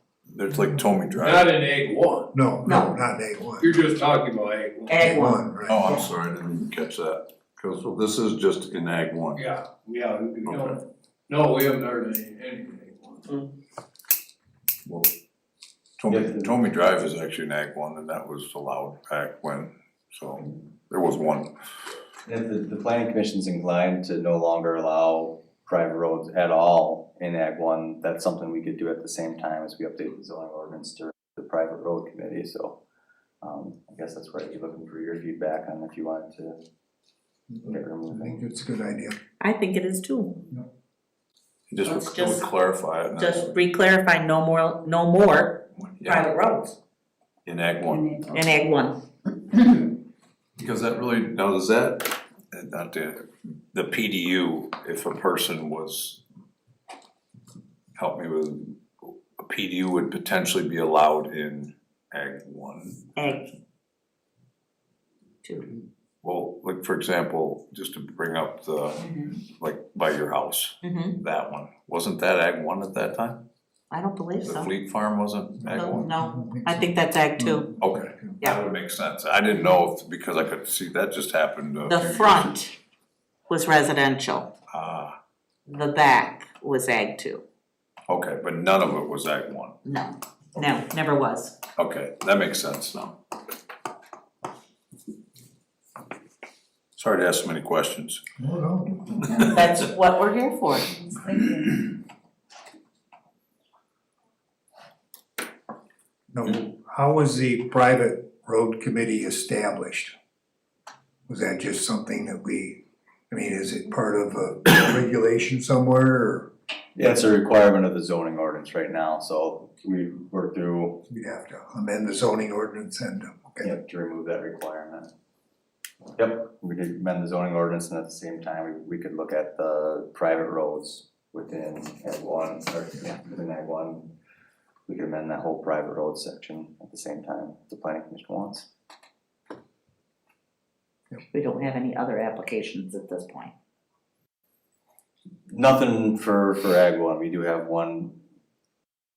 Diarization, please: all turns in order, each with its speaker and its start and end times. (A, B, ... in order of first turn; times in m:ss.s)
0:00.3-0:01.5 A
0:01.3-0:02.3 B
0:02.3-0:03.8 C
0:02.6-0:02.9 D
0:03.6-0:05.0 B
0:04.9-0:05.4 D
0:04.9-0:06.1 C
0:05.7-0:09.4 A
0:09.4-0:10.8 B
0:10.4-0:10.8 A
0:11.3-0:13.4 B
0:14.9-0:15.1 A
0:16.0-0:21.5 A
0:16.1-0:16.6 E
0:22.2-0:32.8 E
0:33.4-0:36.6 E
0:37.5-0:39.2 C
0:37.6-0:38.4 E
0:39.4-0:40.4 D
0:41.7-0:43.6 A
0:41.8-0:42.5 D
0:43.2-0:46.8 D
0:45.8-0:46.3 A
0:47.4-0:48.3 A
0:48.3-0:49.0 D
0:50.6-0:56.2 A
0:58.0-1:03.5 A
1:03.2-1:03.5 D
1:06.2-1:13.4 A
1:10.8-1:11.2 D
1:13.9-1:14.7 D
1:14.4-1:16.1 A
1:15.7-1:17.7 D
1:15.9-1:18.4 C
1:17.8-1:22.5 A
1:21.9-1:22.8 D
1:23.5-1:24.5 D
1:24.7-1:25.1 A
1:25.7-1:27.4 D
1:28.1-1:29.8 A
1:29.8-1:31.6 D
1:31.8-1:33.2 A
1:37.0-1:38.2 A
1:38.4-1:39.2 C
1:39.4-1:41.3 D
1:46.3-1:50.1 C
1:51.3-1:56.5 C
1:57.0-2:01.0 E
2:01.1-2:03.7 C
2:03.6-2:05.1 E
2:06.2-2:14.1 E
2:14.9-2:18.7 E
2:21.3-2:23.5 D
2:25.5-2:28.2 E